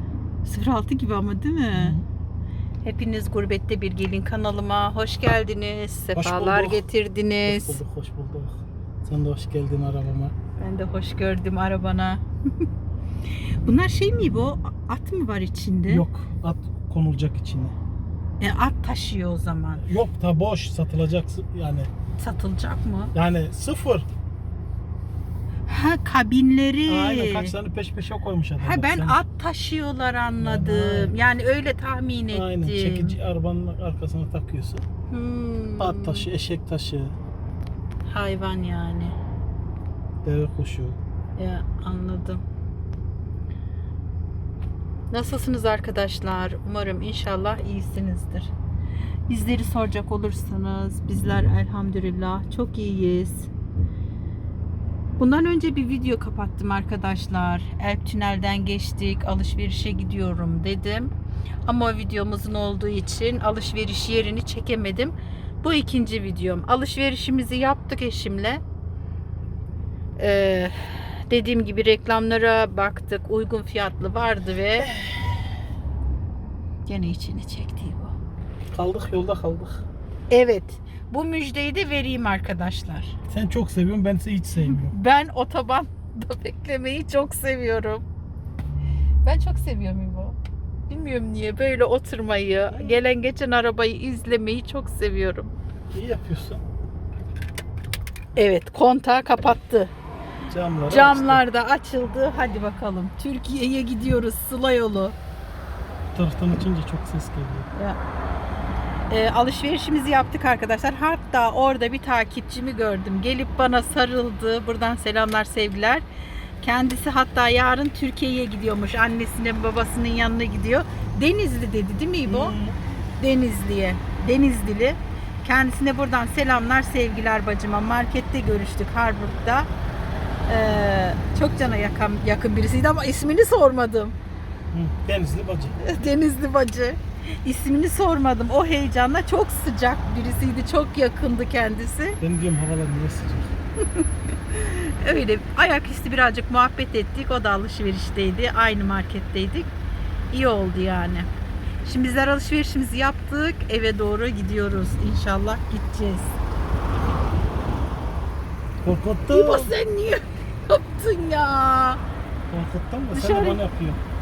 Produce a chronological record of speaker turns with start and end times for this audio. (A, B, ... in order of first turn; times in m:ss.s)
0:00.4-0:02.0 A
0:01.7-0:02.0 B
0:02.8-0:07.8 A
0:06.2-0:06.8 B
0:07.4-0:10.4 B
0:10.6-0:12.7 A
0:13.5-0:16.0 A
0:15.9-0:17.8 B
0:18.4-0:19.8 A
0:19.8-0:21.9 B
0:22.2-0:23.1 A
0:23.1-0:24.1 B
0:25.7-0:27.5 A
0:26.9-0:29.2 B
0:28.6-0:33.2 A
0:30.4-0:31.1 B
0:32.3-0:34.8 B
0:35.1-0:36.3 A
0:35.8-0:37.2 B
0:38.1-0:39.2 A
0:40.2-0:41.0 B
0:41.4-0:42.4 A
0:45.1-0:48.5 A
0:49.3-0:53.5 A
0:55.2-1:01.1 A
1:01.6-1:08.6 A
1:10.2-1:14.9 A
1:14.8-1:15.5 B
1:16.9-1:18.2 A
1:18.7-1:19.8 B
1:20.3-1:23.2 A
1:23.3-1:25.0 B
1:24.6-1:28.0 A
1:29.2-1:30.4 A
1:30.9-1:35.5 A
1:32.7-1:33.0 B
1:35.9-1:36.6 B
1:38.4-1:39.9 A
1:40.5-1:41.4 B
1:40.9-1:45.2 A
1:46.1-1:47.7 B
1:47.7-1:48.0 A
1:49.1-1:56.0 A
1:56.6-2:02.6 A
2:02.3-2:02.8 B
2:03.2-2:09.7 A
2:10.5-2:14.2 A
2:14.7-2:15.8 B
2:15.8-2:22.2 A
2:22.2-2:23.6 B
2:24.0-2:29.7 A
2:30.3-2:31.3 A
2:31.8-2:36.4 A
2:38.8-2:39.8 B
2:39.3-2:42.0 A
2:42.5-2:44.0 B
2:43.1-2:43.6 A